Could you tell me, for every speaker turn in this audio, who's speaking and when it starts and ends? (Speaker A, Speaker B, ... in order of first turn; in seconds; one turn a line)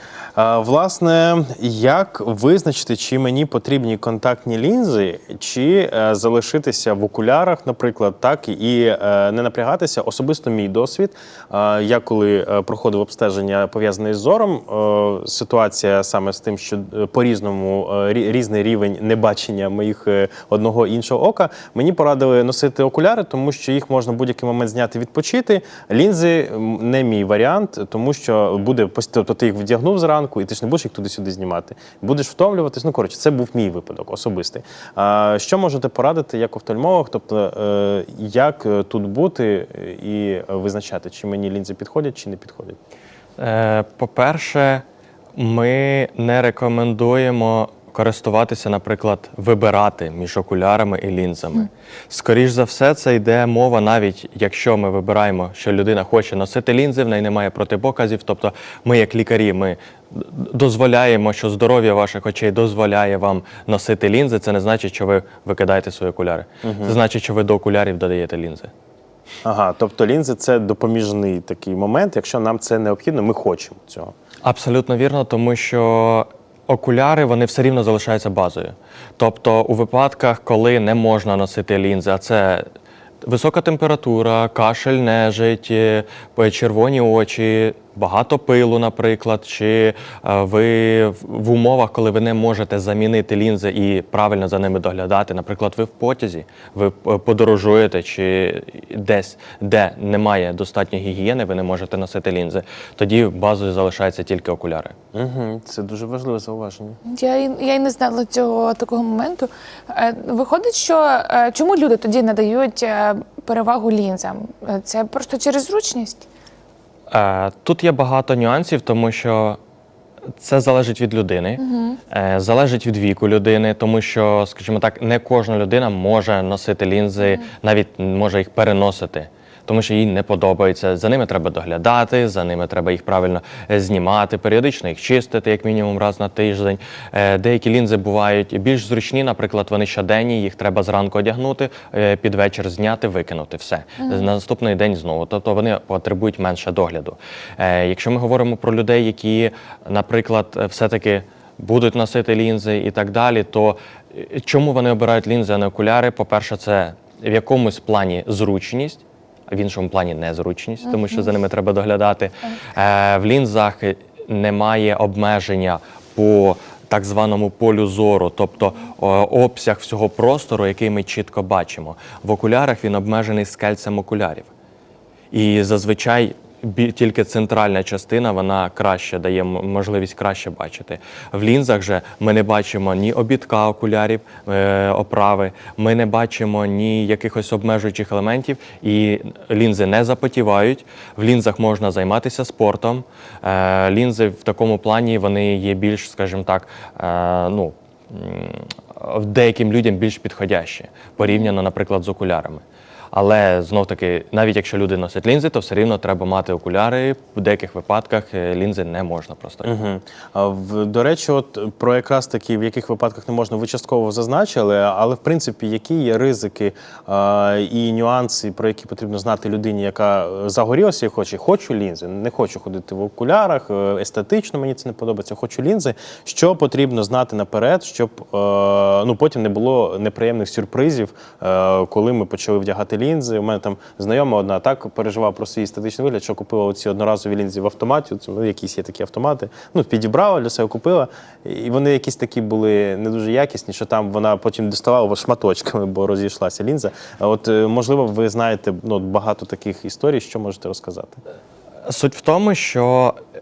Speaker A: 0.4-42.8
Speaker B: 43.4-68.7
Speaker A: 66.6-67.0
Speaker A: 69.4-74.1
Speaker B: 74.4-82.7
Speaker B: 83.2-105.0
Speaker A: 105.1-107.0
Speaker C: 107.0-116.3
Speaker B: 117.1-119.6
Speaker B: 120.4-174.5
Speaker C: 121.6-122.0
Speaker C: 144.0-144.3
Speaker B: 175.3-209.7
Speaker C: 201.2-201.5
Speaker A: 209.6-251.2
Speaker B: 251.9-253.2